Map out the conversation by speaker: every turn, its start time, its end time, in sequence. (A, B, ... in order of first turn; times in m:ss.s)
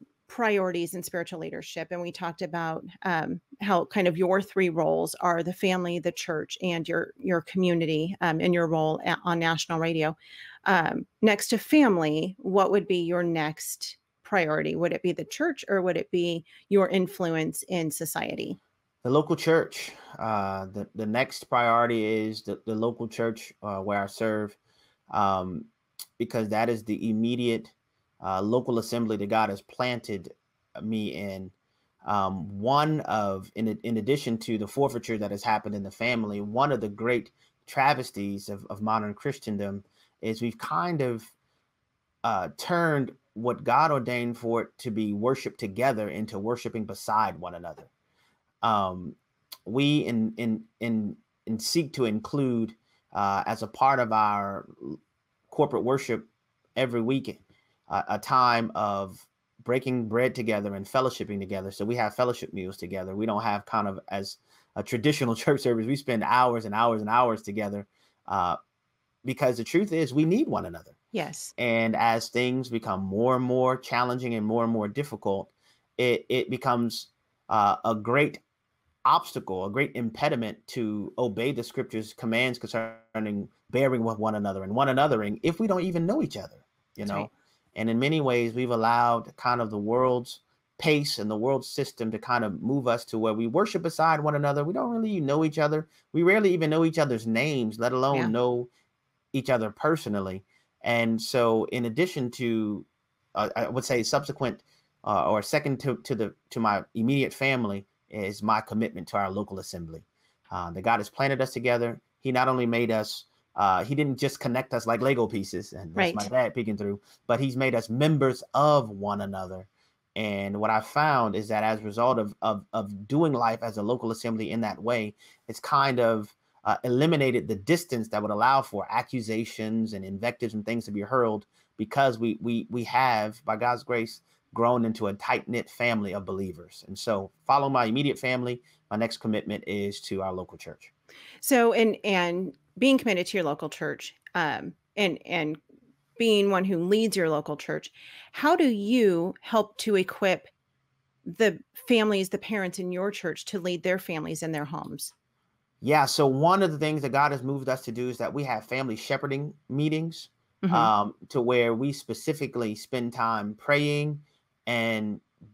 0:00.3-0:18.6 A
0:19.0-0:24.6 B
0:25.1-0:31.5 B
0:32.0-0:41.3 B
0:42.2-0:47.9 B
0:48.6-0:55.0 B
0:55.5-1:08.6 B
1:09.2-1:11.0 B
1:11.1-1:11.5 A
1:11.6-1:18.4 B
1:19.0-1:38.7 B
1:27.0-1:27.3 A
1:39.3-2:20.9 B
1:55.9-1:56.3 A
2:21.4-2:25.6 A
2:26.2-2:30.5 A
2:31.3-2:35.1 A
2:35.8-2:45.2 B
2:40.6-2:40.9 A